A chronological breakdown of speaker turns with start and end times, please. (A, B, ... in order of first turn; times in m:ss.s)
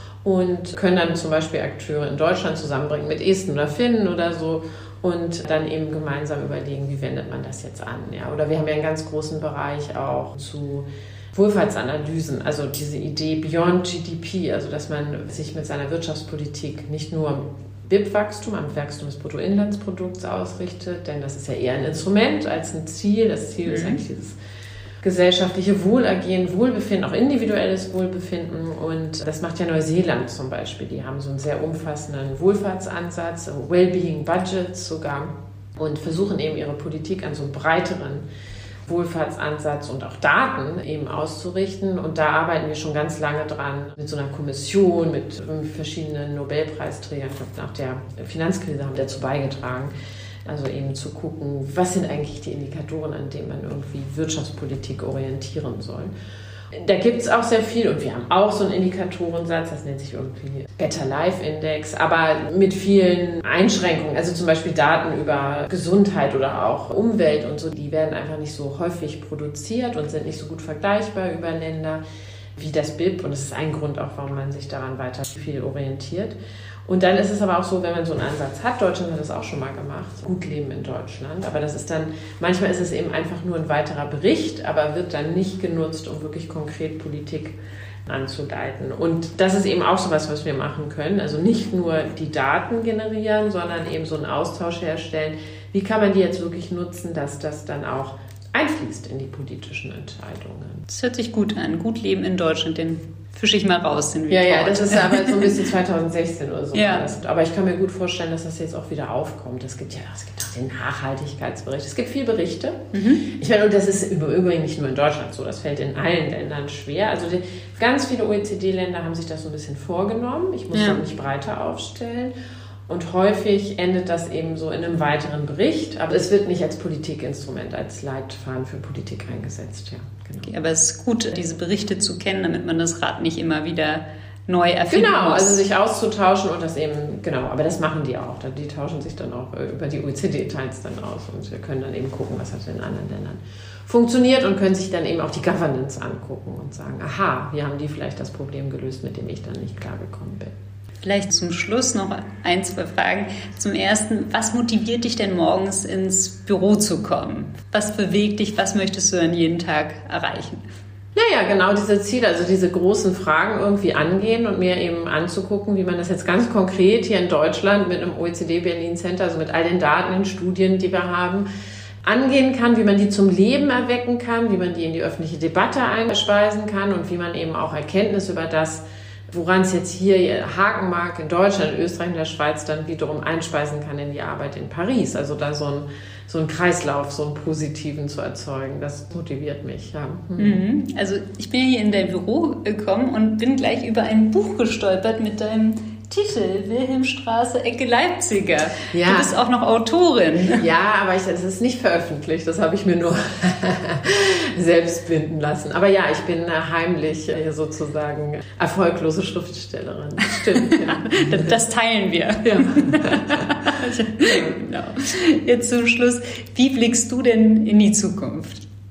0:00.2-0:24.4 A
0:23.6-0:24.0 B
0:25.0-0:38.3 A
0:38.9-0:49.9 A
0:50.4-0:56.1 A
0:56.7-1:12.0 A
1:12.6-1:40.8 A
1:40.9-1:45.6 B
1:44.3-2:02.3 A
1:46.7-1:47.1 B
1:52.9-1:53.2 B
2:00.7-2:01.0 B
2:02.9-2:10.5 A
2:10.5-2:15.6 B
2:14.9-2:30.5 A
2:31.0-2:40.6 B
2:41.2-2:51.5 A
2:52.0-3:10.6 A
3:10.4-3:20.6 B
3:18.9-3:19.3 A
3:20.5-3:31.6 A
3:30.5-3:38.6 B
3:32.4-3:34.6 A